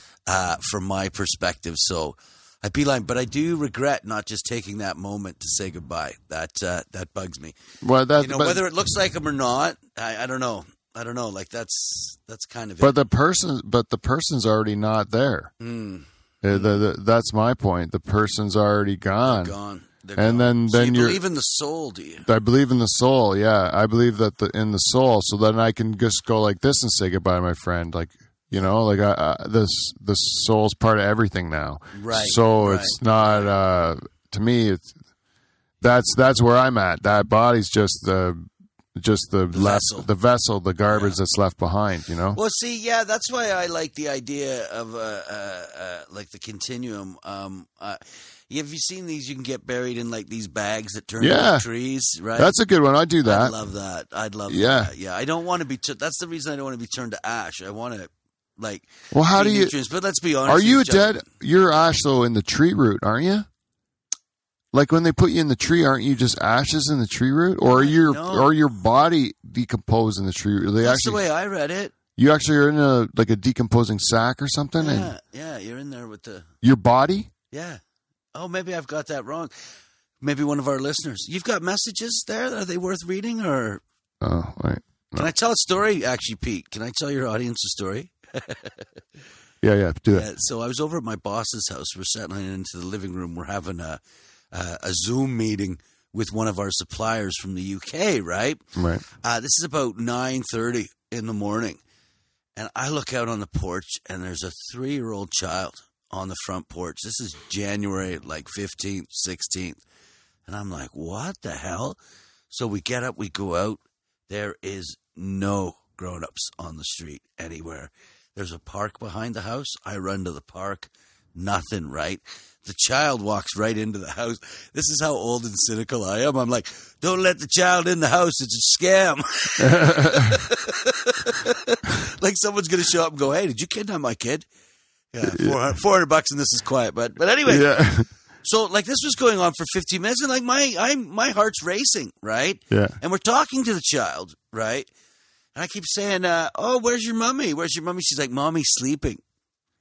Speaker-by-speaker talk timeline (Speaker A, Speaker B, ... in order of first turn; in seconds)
Speaker A: 0.3-7.5, 8.2-12.9, 15.6-16.8, 19.2-22.2, 31.9-33.5, 39.5-40.1, 40.9-41.2, 42.3-52.5, 53.2-61.1, 67.7-68.5, 70.8-71.9, 74.8-76.5, 77.5-77.8, 78.3-79.5, 80.2-83.8, 85.2-88.8, 90.1-94.0, 94.5-98.6, 99.1-101.8, 102.5-109.8, 110.5-112.0, 112.5-134.4, 135.1-137.7, 138.4-144.9, 145.5-149.2
Speaker B: 7.8-8.6, 12.8-15.5, 16.4-19.5, 20.2-21.2, 22.2-35.0, 35.8-42.4, 51.2-51.6, 52.4-53.5, 54.5-54.9, 59.1-59.7, 60.5-63.5, 64.7-71.2, 72.2-75.1, 76.6-77.3, 84.2-85.3, 89.6-90.3, 98.8-99.0, 129.6-130.4, 135.2-135.6, 137.4-138.1, 142.7-143.0